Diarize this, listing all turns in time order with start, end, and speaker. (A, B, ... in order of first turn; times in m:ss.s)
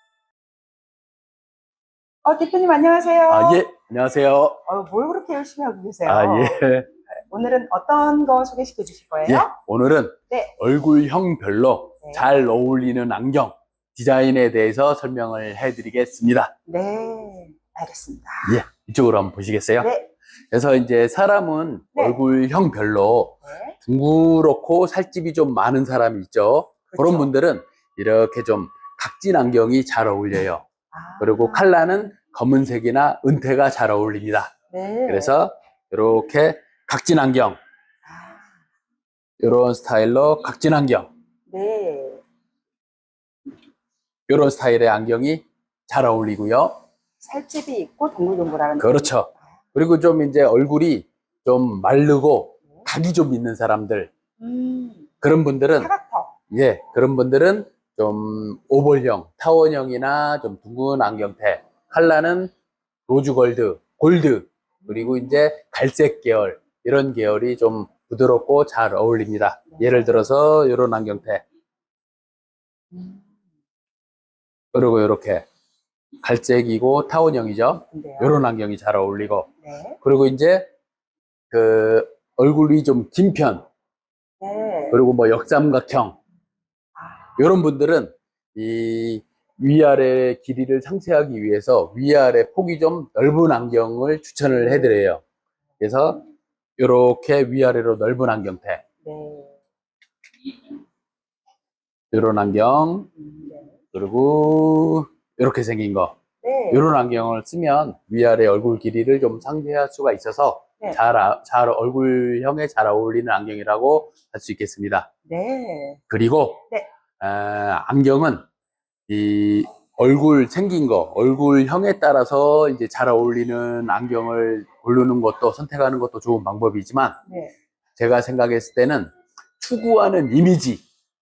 0:02.2-0:03.6 A
0:03.3-0:04.6 B
0:04.6-0:06.6 A
0:06.1-0:06.9 B
0:07.3-0:09.5 A
0:09.2-0:16.5 B
0:12.0-0:12.3 A
0:16.7-0:18.6 A
0:18.4-0:19.9 B
0:19.8-0:20.1 A
0:20.5-0:30.6 B
0:23.4-0:23.8 A
0:26.9-0:27.3 A
0:30.9-0:31.6 A
0:31.2-0:34.5 B
0:34.7-0:35.3 A
0:35.1-0:37.6 B
0:38.0-0:38.5 A
0:39.4-0:41.1 B
0:41.5-0:42.2 A
0:44.3-0:46.7 B
0:47.2-0:49.1 A
0:48.8-0:54.1 B
0:54.4-0:55.1 A
0:55.2-0:55.9 B
0:55.8-0:56.3 A
0:56.5-1:02.5 B
1:03.1-1:11.4 B
1:04.8-1:05.3 A
1:09.7-1:10.2 A
1:12.9-1:13.3 A
1:14.7-1:15.4 B
1:16.2-1:19.5 B
1:17.9-1:18.4 A
1:19.6-1:20.0 A
1:20.0-1:20.7 B
1:21.5-1:23.6 B
1:24.4-1:25.0 A
1:24.9-1:26.2 B
1:27.0-1:27.2 A
1:27.4-1:35.2 B
1:34.6-1:34.9 A
1:35.8-1:36.2 B
1:36.8-1:38.8 B
1:39.0-1:39.6 A
1:42.1-1:43.1 B
1:43.0-1:43.8 A
1:43.9-1:46.1 B
1:46.4-1:46.8 A
1:46.7-1:55.1 B
1:55.2-1:56.0 A
1:56.1-1:56.6 B
1:57.2-1:58.4 B
1:59.1-2:07.2 B
2:07.3-2:07.5 A
2:08.0-2:10.8 B